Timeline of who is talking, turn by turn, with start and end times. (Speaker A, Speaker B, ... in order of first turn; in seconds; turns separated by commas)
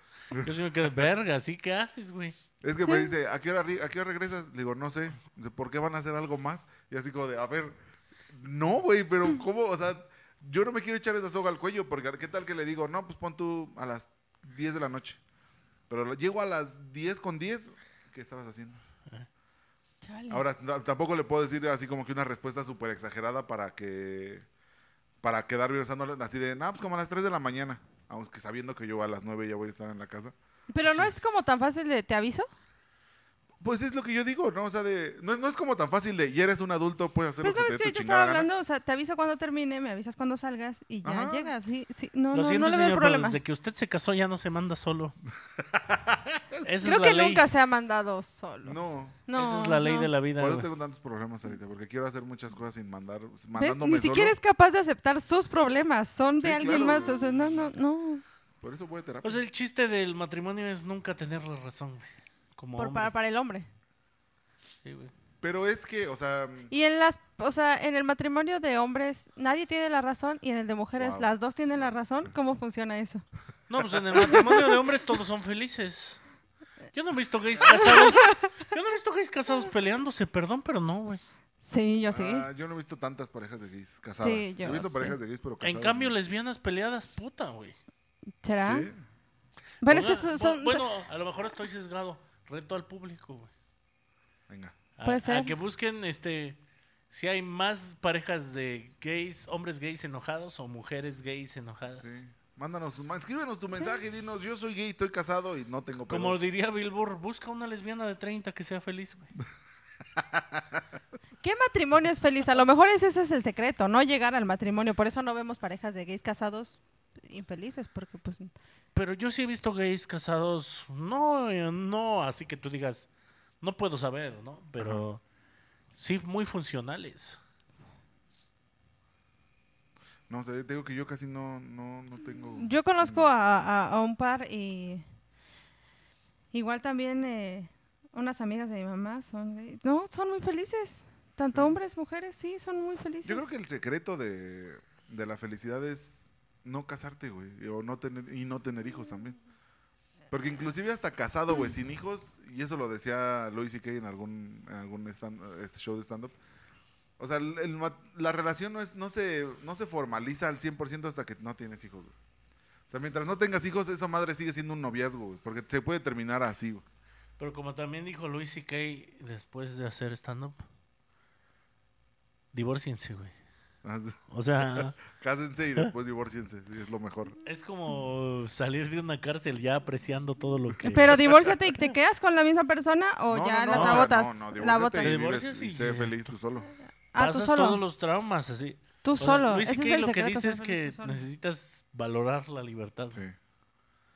Speaker A: 0.3-2.4, Speaker B: 2.6-7.8, Speaker C: 2.8-3.1, Speaker B: 8.3-15.2, Speaker B: 15.9-18.8, Speaker C: 20.0-20.4, Speaker B: 20.3-24.4, Speaker B: 25.2-30.3, Speaker C: 30.7-32.5, Speaker B: 33.6-38.5, Speaker C: 37.4-43.4, Speaker B: 41.0-41.5, Speaker A: 42.3-45.1, Speaker B: 45.5-46.7, Speaker A: 46.6-47.5, Speaker C: 46.8-50.1, Speaker B: 48.6-49.2, Speaker A: 49.3-50.7, Speaker B: 50.4-54.4, Speaker C: 53.5-58.2, Speaker B: 56.4-57.4, Speaker B: 58.6-59.4, Speaker A: 59.2-63.1, Speaker C: 62.8-63.7, Speaker A: 64.8-65.1, Speaker B: 65.4-66.7, Speaker C: 66.7-73.2, Speaker B: 71.0-71.3, Speaker A: 73.7-76.2, Speaker B: 74.1-74.4, Speaker C: 74.2-74.7, Speaker A: 76.9-81.2, Speaker C: 77.6-78.5, Speaker C: 81.6-82.5, Speaker B: 82.1-86.1, Speaker C: 84.2-85.2, Speaker A: 85.6-87.8, Speaker C: 88.4-88.9, Speaker B: 88.6-89.0, Speaker C: 89.8-90.8, Speaker A: 89.8-93.5, Speaker B: 94.5-94.8, Speaker A: 95.0-96.6, Speaker C: 95.0-95.5, Speaker A: 97.1-102.2, Speaker B: 102.0-106.4, Speaker A: 106.0-109.3, Speaker B: 110.1-110.8, Speaker C: 111.4-118.5, Speaker A: 118.9-123.1, Speaker A: 123.6-125.2, Speaker B: 124.8-125.0, Speaker A: 125.9-127.4, Speaker B: 130.3-133.3, Speaker C: 132.6-135.0, Speaker C: 136.5-143.5, Speaker B: 141.5-141.8, Speaker B: 143.2-149.4, Speaker B: 150.3-156.3, Speaker B: 157.2-162.1, Speaker B: 162.9-166.8, Speaker A: 167.4-170.6, Speaker A: 172.5-173.3, Speaker B: 173.8-177.4, Speaker A: 174.3-175.0, Speaker A: 177.4-181.5, Speaker C: 180.8-185.2, Speaker B: 183.3-186.7, Speaker A: 183.7-184.1, Speaker A: 185.0-186.3, Speaker C: 187.1-187.8, Speaker A: 187.2-193.2, Speaker C: 189.0-191.2